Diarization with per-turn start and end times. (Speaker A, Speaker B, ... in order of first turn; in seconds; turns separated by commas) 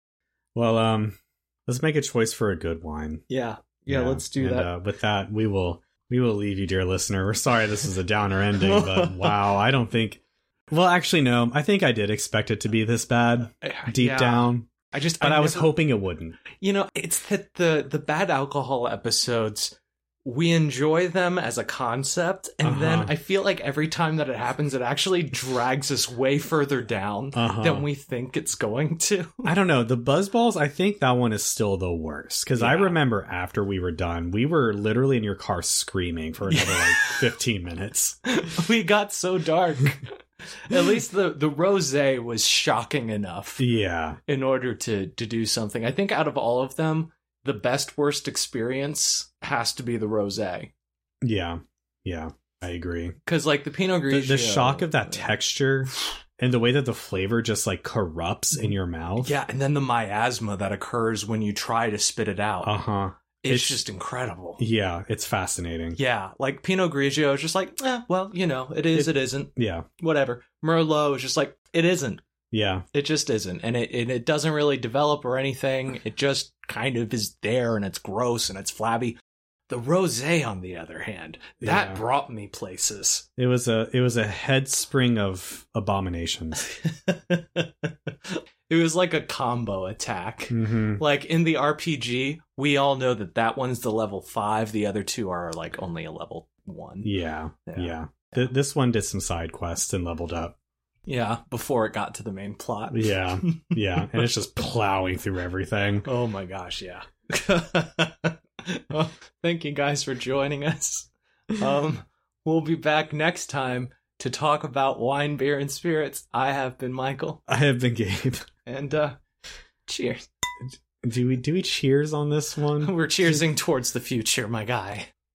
Speaker A: 0.6-3.2, Speaker B: 3.3-4.7, Speaker A: 3.9-16.4, Speaker B: 8.6-9.4, Speaker B: 13.6-15.8, Speaker B: 16.5-29.5, Speaker A: 22.6-23.1, Speaker A: 27.4-27.9, Speaker A: 29.4-38.2, Speaker B: 32.6-33.0, Speaker B: 36.5-37.2, Speaker B: 38.3-43.6, Speaker A: 43.6-44.2, Speaker B: 44.3-50.7, Speaker A: 51.2-53.2, Speaker B: 53.3-55.3, Speaker A: 54.1-59.3, Speaker B: 59.2-62.8, Speaker A: 62.6-63.8, Speaker B: 63.4-64.6, Speaker A: 64.6-66.0, Speaker B: 66.0-72.2, Speaker A: 68.9-69.9, Speaker A: 72.5-72.8, Speaker B: 72.9-79.2, Speaker B: 79.7-83.3, Speaker A: 81.6-82.0, Speaker A: 83.4-86.6, Speaker B: 86.6-97.1, Speaker A: 90.5-91.0, Speaker A: 97.0-100.6, Speaker B: 97.7-98.0, Speaker B: 101.1-104.2, Speaker A: 102.9-106.1, Speaker B: 106.0-117.4, Speaker A: 117.5-118.5, Speaker B: 118.7-119.2, Speaker B: 119.9-120.2, Speaker A: 121.0-123.0, Speaker B: 122.8-125.1